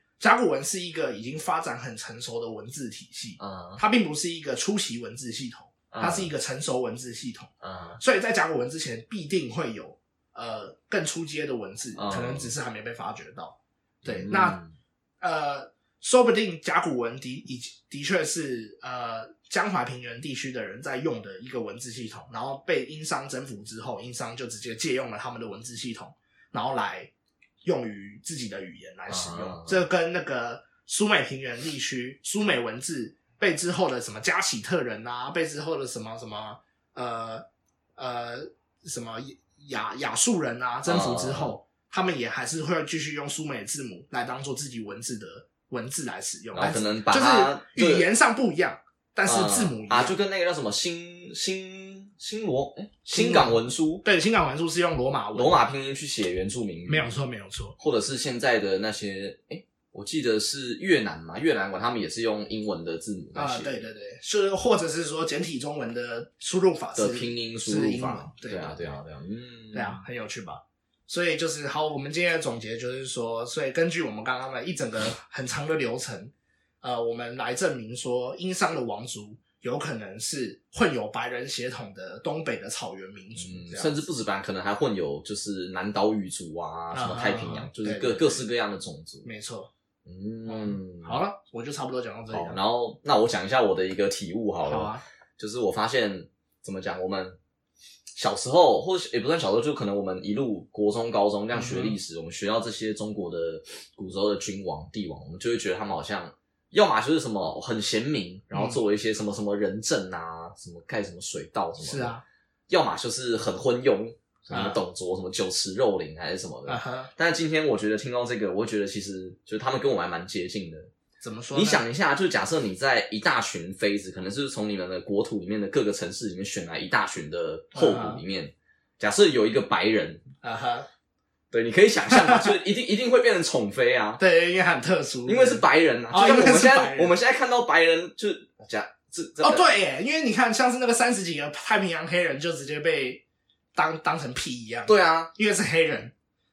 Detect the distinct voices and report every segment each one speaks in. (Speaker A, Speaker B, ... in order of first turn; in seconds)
Speaker A: 0.2-14.6, 15.2-27.1, 27.6-37.5, 38.0-50.2, 53.1-55.6, 56.9-57.8, 63.4-68.8, 69.7-84.0, 86.9-88.4, 89.2-89.7, 90.5-92.6, 94.7-95.0, 101.5-102.0, 108.5-108.8, 111.8-112.2, 114.5-114.8, 116.7-117.1, 121.2-121.8, 127.7-128.2, 130.4-130.9, 132.1-132.5, 134.2-137.1, 139.4-143.2, 143.8-146.1
Speaker B: 3.4-3.8, 5.9-6.3, 7.6-8.0, 11.9-12.5, 14.0-14.8, 29.1-29.9, 40.9-41.5, 46.5-48.1, 49.3-54.0, 55.4-57.1, 57.8-63.7, 67.0-70.0, 83.4-89.3, 90.0-91.2, 92.3-97.4, 98.2-112.1, 112.7-120.9, 121.5-130.2, 131.5-134.2, 135.2-139.7, 144.9-145.3